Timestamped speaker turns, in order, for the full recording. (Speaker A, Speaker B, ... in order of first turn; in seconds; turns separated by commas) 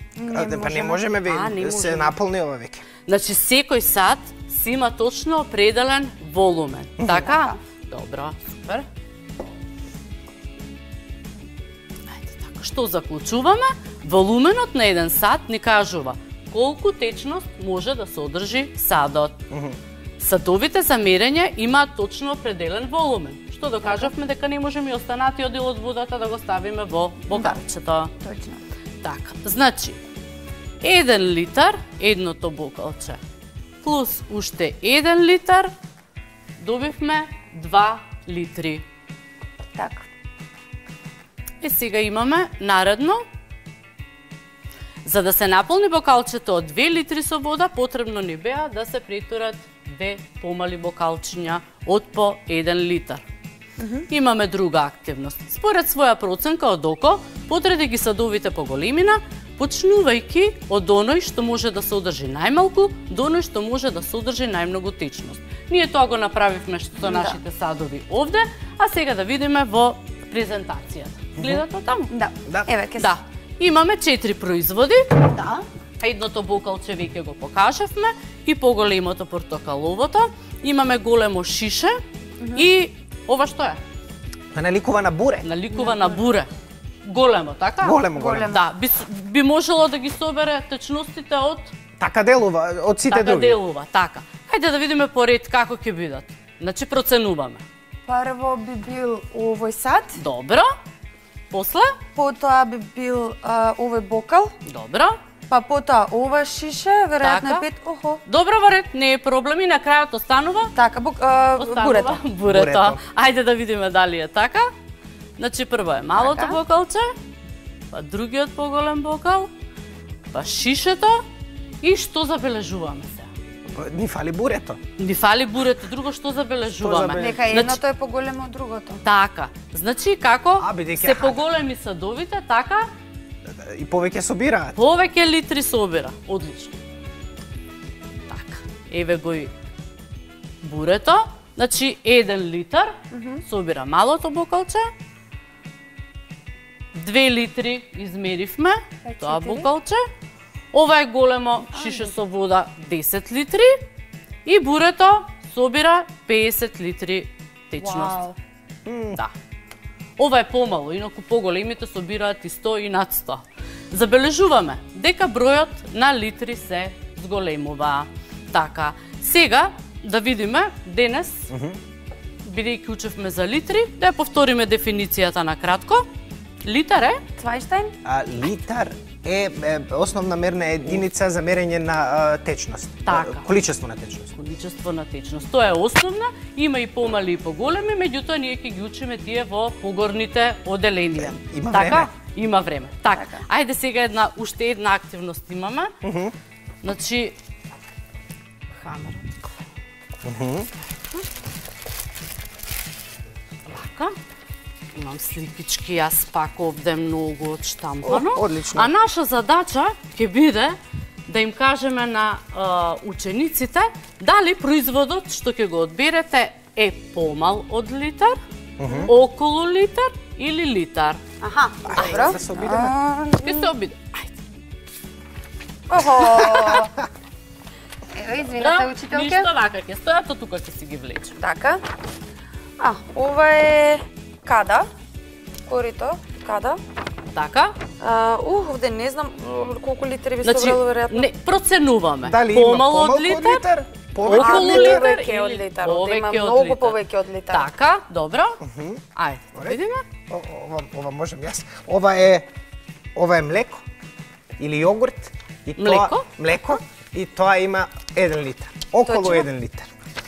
Speaker A: 0.1-1.0, Speaker B: 0.3-2.8, Speaker C: 1.2-2.2, Speaker C: 3.0-8.8, Speaker B: 7.0-7.2, Speaker A: 7.1-7.6, Speaker C: 12.1-19.4, Speaker B: 19.5-19.8, Speaker C: 20.2-28.1, Speaker A: 23.8-24.1, Speaker A: 27.3-27.6, Speaker A: 28.2-28.6, Speaker C: 29.0-30.0, Speaker C: 30.8-33.2, Speaker C: 33.8-35.7, Speaker C: 36.6-38.8, Speaker A: 39.7-40.0, Speaker C: 41.6-43.2, Speaker C: 45.0-53.2, Speaker A: 53.8-54.1, Speaker C: 54.1-72.1, Speaker A: 67.0-67.4, Speaker B: 71.4-71.6, Speaker A: 72.1-73.1, Speaker B: 72.5-72.7, Speaker C: 73.0-75.3, Speaker C: 76.0-82.0, Speaker A: 82.4-82.7, Speaker C: 82.5-83.8, Speaker B: 84.5-85.5, Speaker C: 85.4-86.5, Speaker A: 85.8-86.1, Speaker C: 87.0-91.7, Speaker B: 87.8-88.5, Speaker A: 88.2-88.6, Speaker B: 92.0-93.6, Speaker C: 93.1-97.6, Speaker A: 98.0-100.2, Speaker C: 100.2-100.7, Speaker C: 101.5-101.9, Speaker A: 102.2-104.5, Speaker C: 104.7-105.2, Speaker A: 105.5-108.2, Speaker C: 107.2-107.7, Speaker C: 108.2-110.7, Speaker A: 110.7-112.2, Speaker C: 111.6-114.7, Speaker B: 112.5-113.0, Speaker C: 115.4-117.1, Speaker A: 116.1-116.6, Speaker C: 117.9-119.5, Speaker C: 120.3-121.2, Speaker C: 121.8-123.3, Speaker B: 123.7-124.8, Speaker C: 125.0-127.8, Speaker B: 126.8-127.5, Speaker A: 127.1-129.0, Speaker C: 129.0-132.9, Speaker B: 130.6-131.4, Speaker B: 133.5-134.8, Speaker C: 134.7-136.8, Speaker C: 138.3-139.5, Speaker C: 140.6-142.9, Speaker A: 143.1-143.4, Speaker C: 143.4-144.9, Speaker C: 146.9-150.0, Speaker A: 149.0-149.7, Speaker C: 150.7-153.8, Speaker A: 151.7-152.1, Speaker C: 154.4-158.3, Speaker A: 157.8-158.3, Speaker B: 158.8-159.2, Speaker C: 160.2-171.5, Speaker B: 171.5-171.8, Speaker C: 172.4-176.1, Speaker C: 176.6-177.2, Speaker A: 177.4-177.9, Speaker B: 178.0-184.3, Speaker C: 183.0-183.5, Speaker C: 184.3-195.9, Speaker B: 191.2-192.1, Speaker A: 193.1-193.4, Speaker B: 196.0-196.3, Speaker C: 196.8-197.3, Speaker C: 198.8-199.3, Speaker B: 200.2-200.7, Speaker C: 203.7-204.1, Speaker C: 204.9-218.4, Speaker B: 208.0-208.9, Speaker B: 218.8-219.1, Speaker C: 219.0-221.2, Speaker A: 221.4-223.7, Speaker B: 221.9-222.9, Speaker C: 223.4-224.3, Speaker A: 225.9-226.9, Speaker A: 228.1-229.5, Speaker C: 228.6-231.3, Speaker A: 231.4-231.8, Speaker A: 232.8-234.9, Speaker A: 235.7-236.8, Speaker C: 237.3-237.8, Speaker A: 238.0-241.3, Speaker C: 240.4-243.6, Speaker B: 242.2-245.2, Speaker C: 244.2-247.0, Speaker A: 244.3-247.7, Speaker C: 247.5-248.6, Speaker B: 248.6-249.0, Speaker C: 249.1-250.0, Speaker B: 250.3-252.5, Speaker B: 253.1-253.8, Speaker B: 254.6-259.9, Speaker C: 255.8-256.3, Speaker A: 259.0-259.5